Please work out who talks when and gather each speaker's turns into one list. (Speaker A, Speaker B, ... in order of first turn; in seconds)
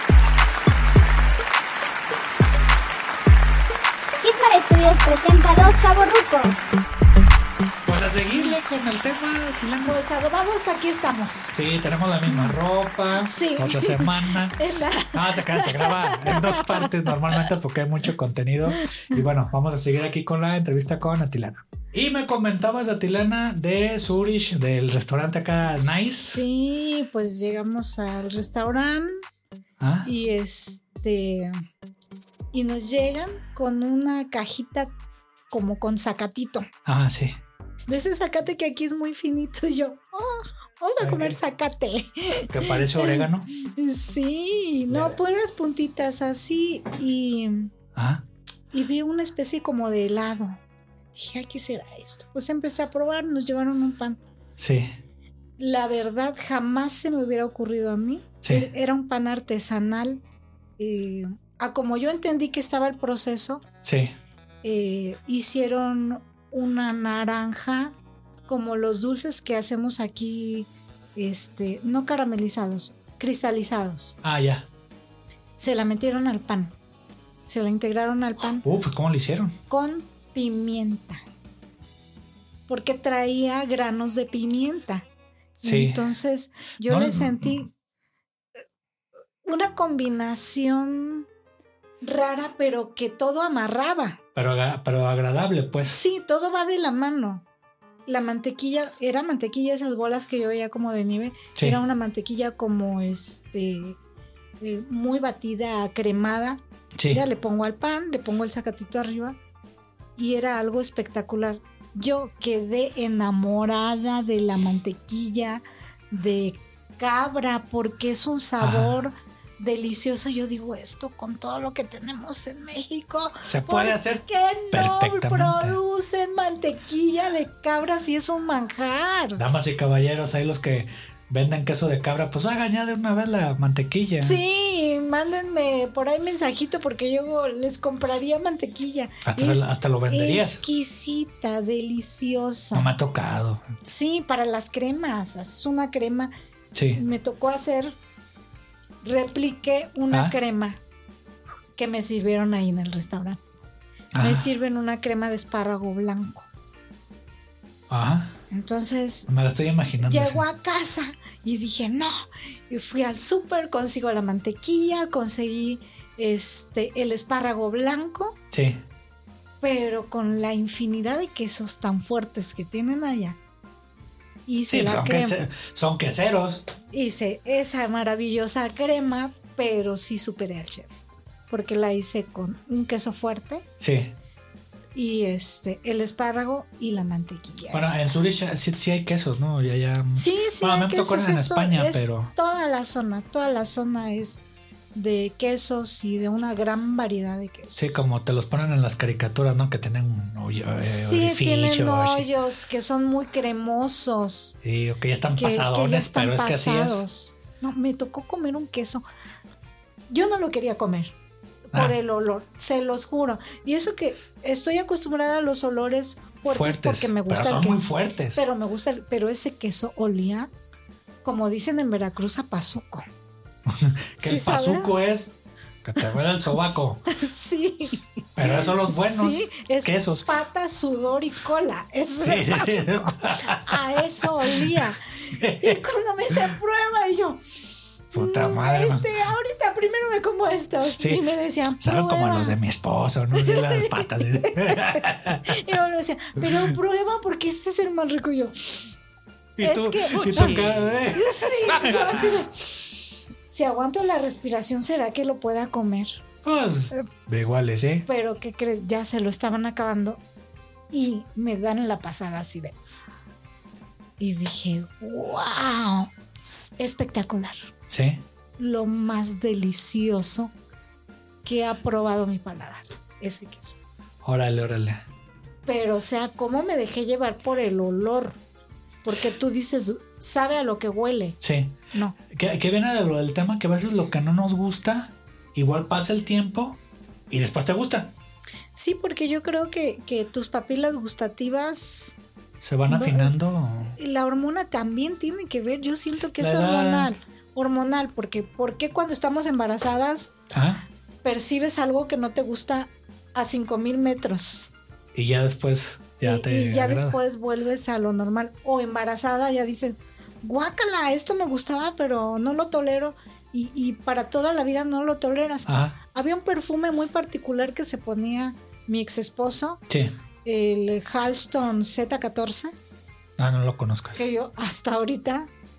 Speaker A: 4.2-6.8
Speaker B: 7.8-10.0, 11.5-26.4, 29.8-30.1, 36.9-37.4, 41.0-41.3, 42.5-43.5, 48.0-48.2, 54.6-55.0, 58.4-58.7, 63.8-64.1, 74.2-74.7, 78.6-79.6, 85.6-86.0, 86.8-87.6, 94.3-96.0, 107.0-107.2, 118.6-119.0, 123.4-125.8, 129.4-134.4, 139.2-140.6, 142.7-143.8, 146.7-147.0, 154.1-154.5, 157.9-158.4, 159.3-160.4, 168.5-168.8, 174.7-176.7, 183.8-184.1, 187.7-192.3, 197.7-202.3, 204.6-207.1, 216.4-218.4, 223.7-227.1, 228.3-230.3, 232.2-236.5, 238.1-239.1, 241.0-241.2, 241.8-245.7, 246.4-246.8, 249.6-252.4, 256.4-258.1, 267.9-268.2, 274.2-275.0, 281.4-286.8, 287.3-288.1, 292.6-293.9, 296.4-297.1, 300.5-300.8, 305.1-307.2, 315.7-316.0, 323.4-324.2
Speaker C: 9.8-11.5, 12.3-12.6, 13.1-17.5, 18.7-19.2, 25.8-29.1, 30.1-31.6, 32.5-34.9, 35.5-36.7, 37.9-47.7, 48.7-50.6, 51.1-54.2, 55.6-60.2, 60.8-63.6, 64.6-67.9, 68.5-74.2, 75.6-76.8, 77.5-78.6, 79.7-81.2, 82.7-85.0, 85.6-87.7, 89.4-91.3, 92.0-94.2, 95.8-97.4, 98.0-104.0, 104.6-109.4, 110.2-129.4, 134.2-142.9, 143.8-146.3, 146.9-148.0, 149.0-150.8, 151.8-153.4, 154.2-156.5, 158.5-159.3, 160.0-168.4, 169.6-173.4, 174.5-175.4, 176.9-180.9, 181.5-183.7, 184.9-188.0, 190.1-198.0, 200.8-204.6, 205.4-209.0, 210.1-211.2, 211.7-217.8, 218.3-220.5, 221.2-223.1, 224.2-224.9, 227.1-242.6, 243.3-248.9, 249.6-256.2, 258.1-260.2, 260.9-262.8, 264.2-267.7, 268.6-270.5, 271.4-273.8, 275.7-278.4, 279.1-281.4, 288.8-292.2, 292.9-293.3, 293.9-300.3, 301.2-304.7, 306.2-319.8, 320.4-322.8, 324.2-325.5